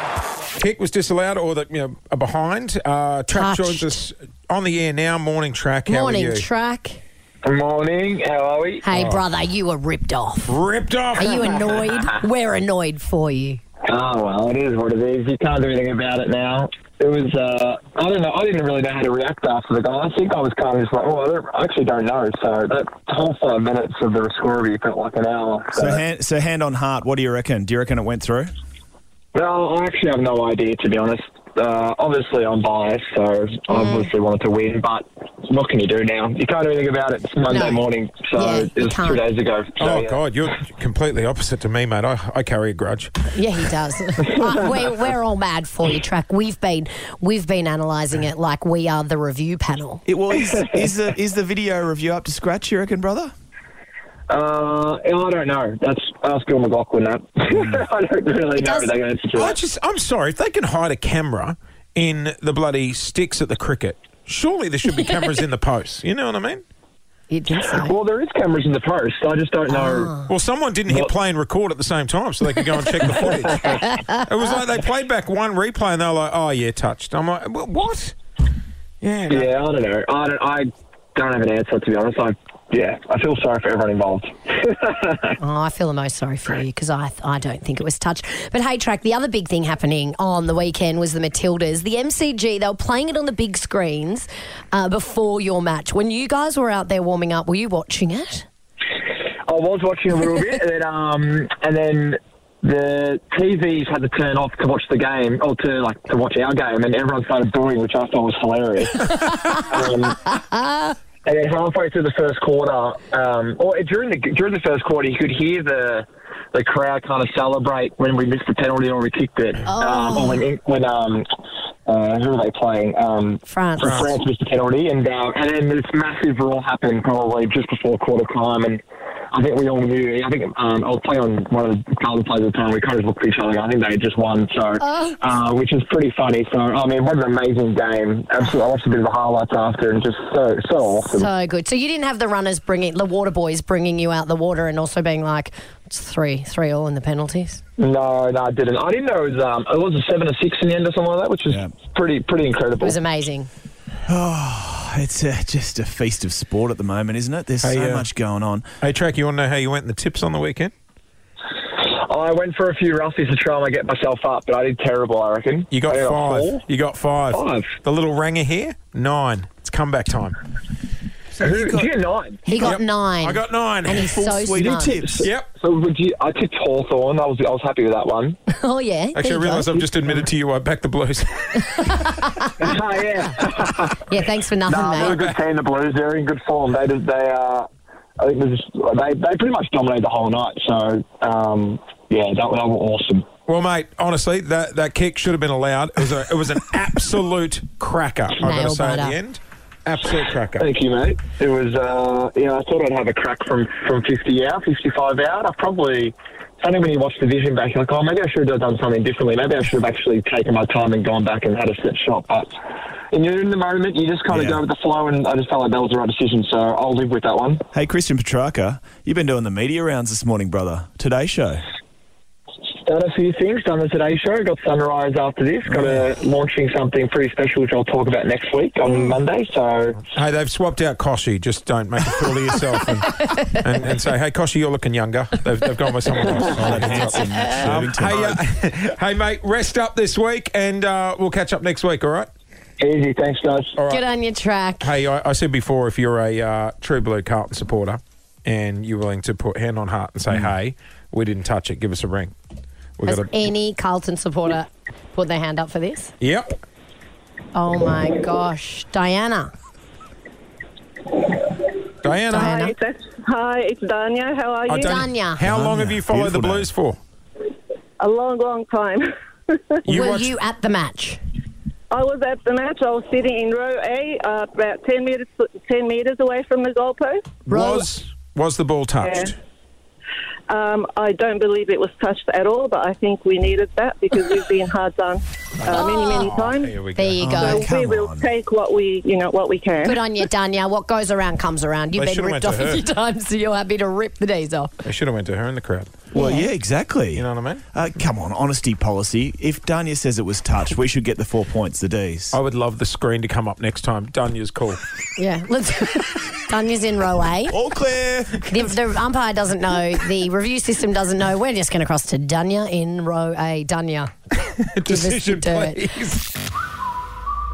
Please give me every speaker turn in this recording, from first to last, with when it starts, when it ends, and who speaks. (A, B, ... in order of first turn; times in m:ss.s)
0:00.6-0:06.5 A
0:03.3-0:04.1 B
0:05.9-0:07.0 B
0:07.4-0:08.9 C
0:08.8-0:10.5 B
0:08.9-0:09.2 A
0:10.4-0:11.4 A
0:11.2-0:13.6 B
0:13.9-0:26.0 C
0:25.7-0:28.5 D
0:29.3-0:40.2 C
0:33.7-0:34.1 B
0:37.5-0:37.8 B
0:38.4-0:39.2 B
0:39.8-0:43.3 A
0:43.3-0:50.0 B
0:50.1-0:53.3 D
0:54.3-0:59.6 C
0:58.6-0:58.9 B
0:59.3-1:06.6 A
1:05.0-1:05.2 B
1:07.3-1:08.0 B
1:07.8-1:10.1 C
1:09.7-1:10.3 B
1:10.3-1:18.2 A
1:13.0-1:13.6 C
1:19.0-1:19.5 A
1:19.3-1:25.4 C
1:25.4-1:38.5 B
1:39.5-1:50.2 C
1:50.3-1:50.9 B
1:51.2-2:01.3 C
1:59.7-2:00.5 B
2:01.9-2:08.8 C
2:03.5-2:04.1 B
2:09.3-2:21.3 C
2:14.8-2:15.2 B
2:21.1-2:27.6 B
2:27.8-2:33.0 C
2:32.8-2:33.5 B
2:34.1-2:38.7 D
2:37.6-2:38.1 A
2:38.8-2:40.7 A
2:41.8-2:46.6 C
2:45.7-2:50.4 A
2:47.3-2:47.8 C
2:51.3-2:51.9 D
2:51.4-2:52.5 C
2:52.5-2:55.0 B
2:52.5-2:54.1 A
2:53.9-2:55.3 D
2:54.6-2:58.4 C
2:55.2-2:55.5 A
2:58.6-2:59.9 B
2:59.2-3:01.7 A
3:01.8-3:02.6 B
3:02.6-3:04.0 C
3:04.0-3:05.2 B
3:04.7-3:07.7 C
3:05.0-3:05.4 A
3:08.2-3:13.3 C
3:13.5-3:20.7 A
3:18.4-3:19.2 B
3:20.6-3:32.5 C
3:33.1-3:37.6 C
3:34.3-3:34.6 D
3:37.7-3:41.7 D
3:42.8-3:50.0 C
3:45.7-3:46.0 D
3:50.1-4:02.3 A
3:56.4-3:58.4 D
3:56.8-3:57.2 B
4:02.8-4:03.8 C
4:03.8-4:04.0 A
4:03.9-4:04.9 B
4:04.8-4:12.3 A
4:13.0-4:13.3 A
4:13.0-4:16.1 B
4:16.2-4:16.6 A
4:17.5-4:19.5 B
4:22.0-4:22.7 A
4:22.3-4:25.0 E
4:22.3-4:22.7 B
4:24.7-4:27.0 A
4:24.8-4:25.4 B
4:25.4-4:26.7 D
4:28.0-4:29.6 E
4:29.9-4:30.3 A
4:29.9-4:31.2 B
4:31.9-4:37.4 E
4:37.5-4:37.9 B
4:37.5-4:39.4 A
4:39.0-4:39.3 E
4:40.5-4:46.7 E
4:45.7-4:46.3 B
4:45.8-4:47.2 A
4:46.9-4:47.7 B
4:47.2-4:48.3 D
4:47.4-4:50.0 E
4:49.8-4:54.7 B
4:51.9-4:52.8 A
4:54.8-4:56.0 A
4:56.2-4:56.5 B
4:56.2-5:02.4 D
4:57.1-4:57.6 A
5:02.3-5:04.8 A
5:05.2-5:07.6 B
5:07.5-5:08.4 D
5:08.5-5:14.1 B
5:14.7-5:16.3 A
5:14.8-5:15.8 B